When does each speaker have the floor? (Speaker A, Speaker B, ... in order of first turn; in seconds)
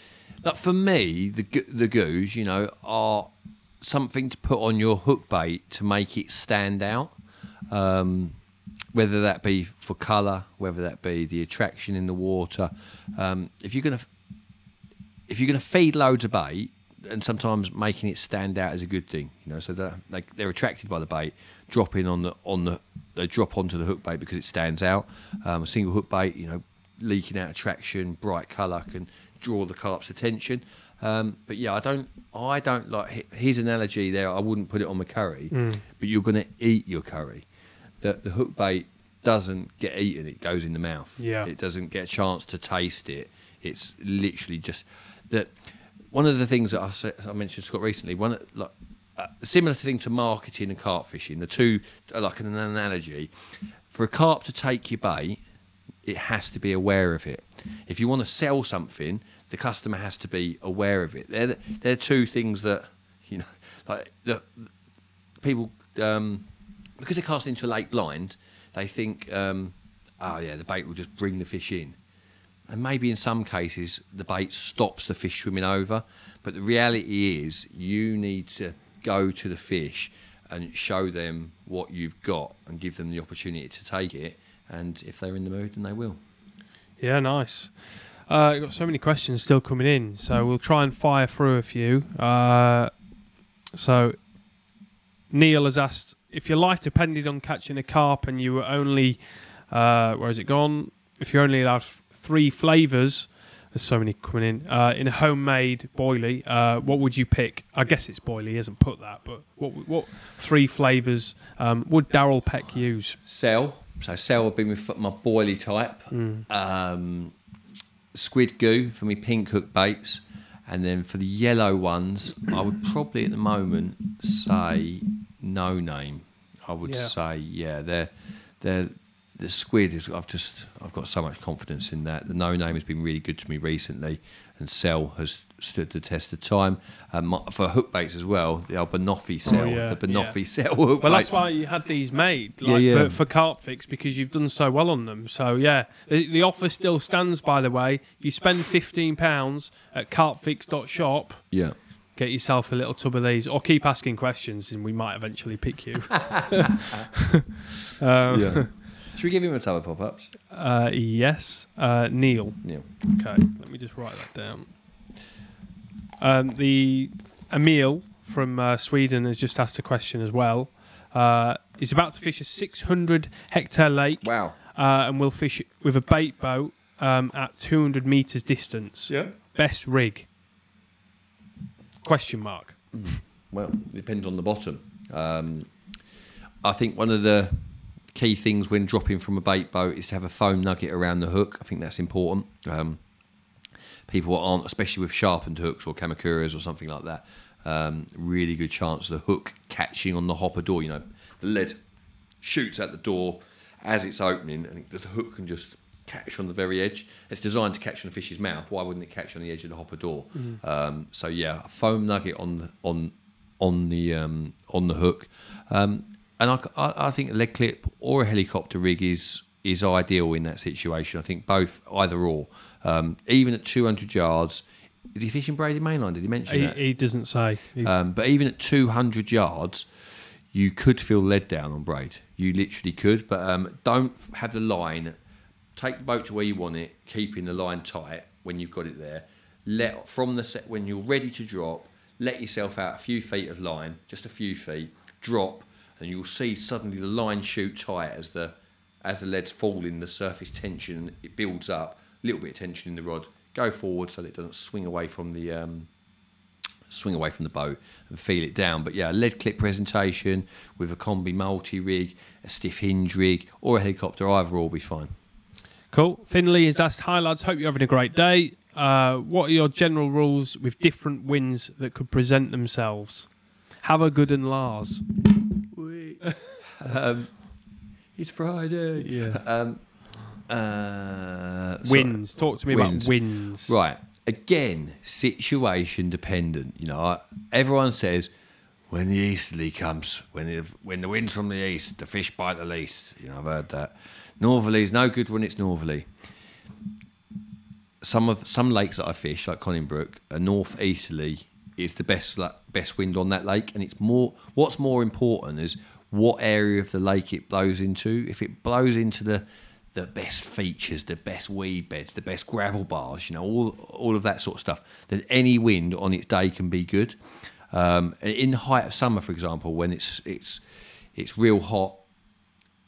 Speaker A: 0.4-7.2, 7.7-8.4, 8.9-14.1, 15.3-37.4, 38.0-45.6, 46.1-53.3, 53.9-55.4, 56.0-64.7, 65.4-66.5, 67.0-72.0, 72.7-86.2, 113.2-117.3, 118.1-141.4, 142.6-143.2, 151.5-151.8, 156.3-157.1, 158.3-160.3, 174.2-174.6, 179.1-179.3, 182.9-185.7, 186.6-193.0, 194.1-201.8, 202.4-226.8, 227.8-229.9, 230.5-235.1, 235.7-255.9, 256.9-265.1, 276.7-277.3, 278.1-279.8, 280.5-288.3, 288.9-296.1, 298.0-317.2, 317.7-320.6, 321.1-322.0
Speaker B: 35.5-35.8, 41.2-41.5, 87.0-92.9, 93.7-94.2, 95.3-113.2, 116.1-116.5, 126.8-127.1, 139.4-140.4, 141.0-151.4, 152.2-158.7, 160.5-164.7, 166.2-180.3, 182.0-182.8, 210.3-210.6, 226.5-227.9, 265.9-273.3, 273.8-276.6, 279.0-279.4, 281.8-283.7